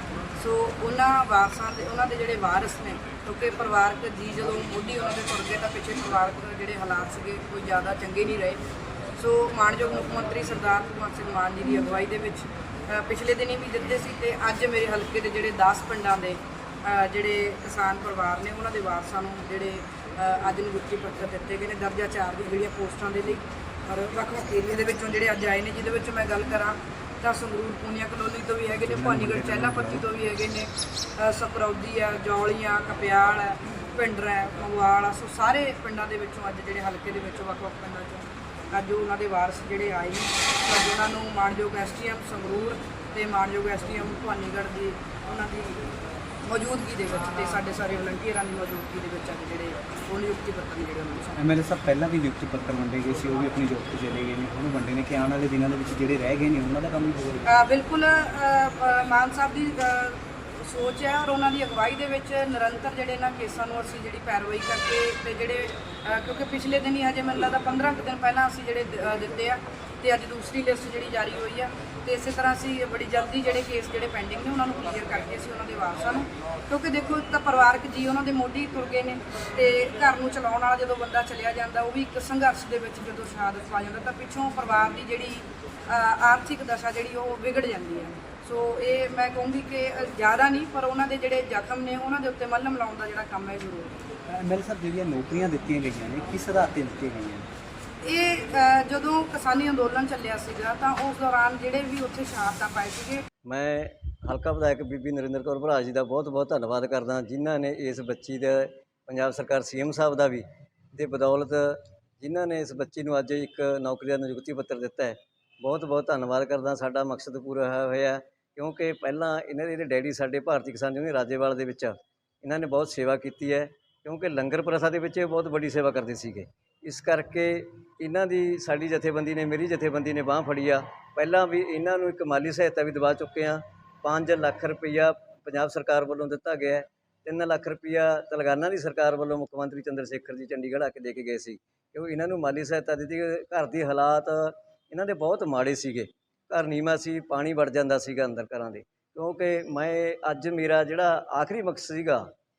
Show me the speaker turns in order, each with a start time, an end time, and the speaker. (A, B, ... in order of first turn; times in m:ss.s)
0:00.4-0:08.6 A
0:09.2-0:45.8 A
0:28.9-0:30.0 B
0:46.4-0:51.4 A
0:51.4-0:57.5 B
0:57.5-1:34.0 A
1:34.3-1:37.5 B
1:38.0-1:43.2 A
1:43.5-2:32.2 C